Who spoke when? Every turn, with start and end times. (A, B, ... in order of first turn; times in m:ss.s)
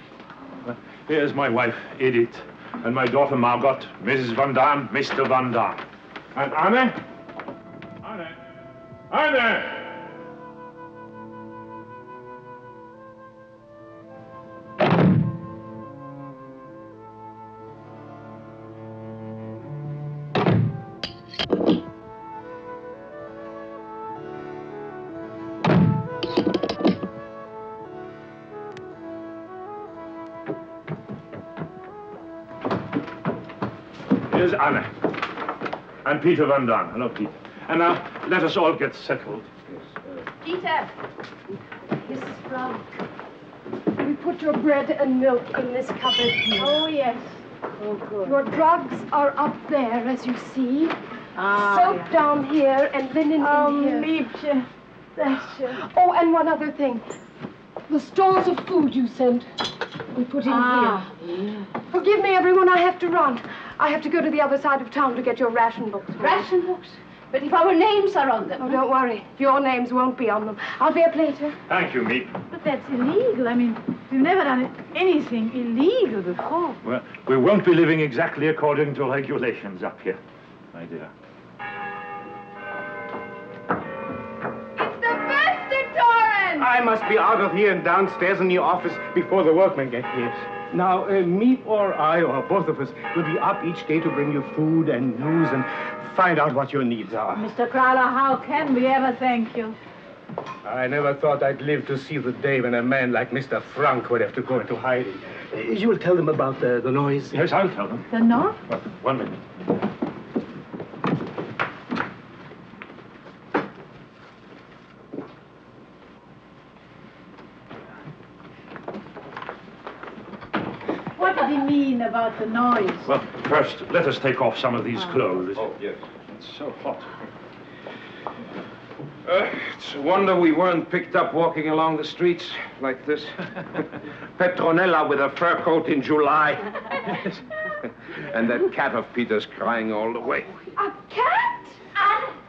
0:00.6-0:07.0 A
0:08.0-0:08.4 A
0:09.1-0:10.1 A
0:34.3-0:35.0 A
0:36.0-0:39.5 A
0:40.4-0:40.9 B
0:42.3-0:42.7 B
0:44.0-0:46.8 C
0:46.5-0:48.4 D
0:48.2-0:54.2 C
0:51.4-0:52.1 D
0:51.6-0:51.8 B
0:53.4-0:55.9 D
0:55.8-0:57.0 C
0:57.9-0:59.5 C
1:00.1-1:01.1 C
1:00.4-1:01.7 D
1:01.9-1:06.5 C
1:06.2-1:08.8 B
1:08.6-1:11.6 C
1:11.7-1:12.3 A
1:12.5-1:16.8 D
1:16.8-1:20.2 A
1:20.7-1:21.1 A
1:24.8-1:26.7 E
1:26.6-1:37.5 F
1:37.3-1:39.8 D
1:40.6-1:47.4 F
1:47.3-1:48.1 A
1:48.1-1:48.6 D
1:48.7-1:49.4 A
2:01.2-2:03.1 D
2:03.0-2:05.7 A
2:05.6-2:06.0 G
2:06.3-2:07.2 A
2:09.2-2:13.8 G
2:14.4-2:16.6 G
2:18.3-2:20.5 G
2:20.8-2:22.0 E